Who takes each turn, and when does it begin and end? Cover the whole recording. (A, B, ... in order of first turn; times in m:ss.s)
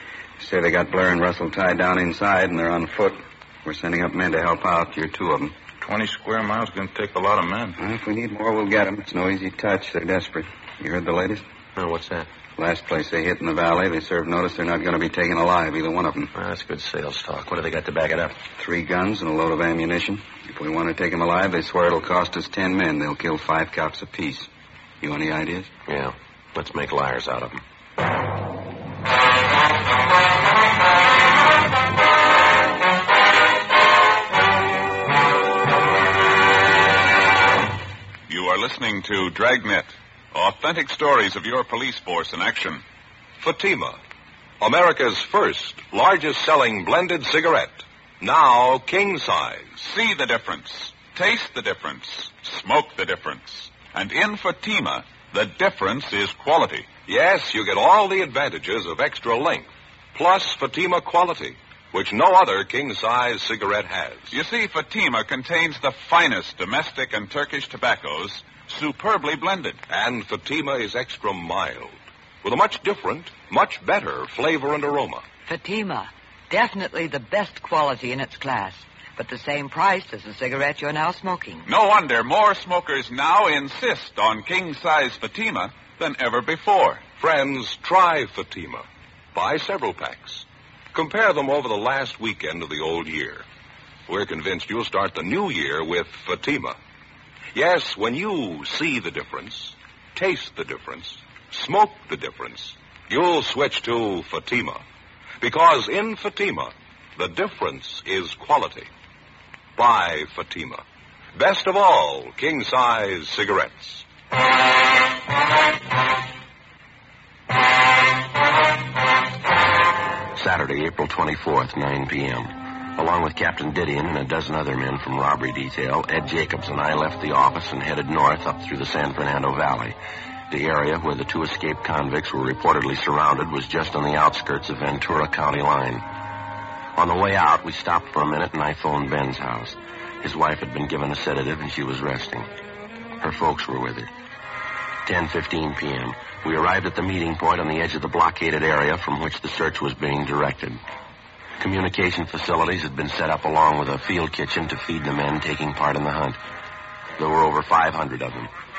0:00.4-0:05.5 A
0:05.8-0:07.8 B
0:07.8-0:11.4 A
0:11.8-0:12.3 C
0:12.6-0:16.3 A
0:16.3-0:18.4 C
0:18.6-0:24.5 A
0:25.0-0:25.7 A
0:25.9-0:27.6 C
0:38.3-0:42.8 D
0:43.4-0:44.0 E
0:44.6-0:49.8 E
0:49.8-0:56.9 D
0:57.1-1:04.3 E
1:04.3-1:09.8 D
1:09.9-1:15.2 E
1:15.4-1:21.7 F
1:21.6-1:27.0 D
1:27.2-1:33.4 E
1:34.1-1:36.8 E
1:37.5-1:44.8 E
1:45.4-1:48.9 E
1:49.8-1:50.8 E
1:51.3-1:54.0 E
2:00.3-2:10.0 C
2:10.5-2:16.0 C
2:17.0-2:22.5 C
2:23.2-2:24.1 C
2:25.0-2:30.8 C
2:31.6-2:36.4 C
2:37.2-2:38.5 C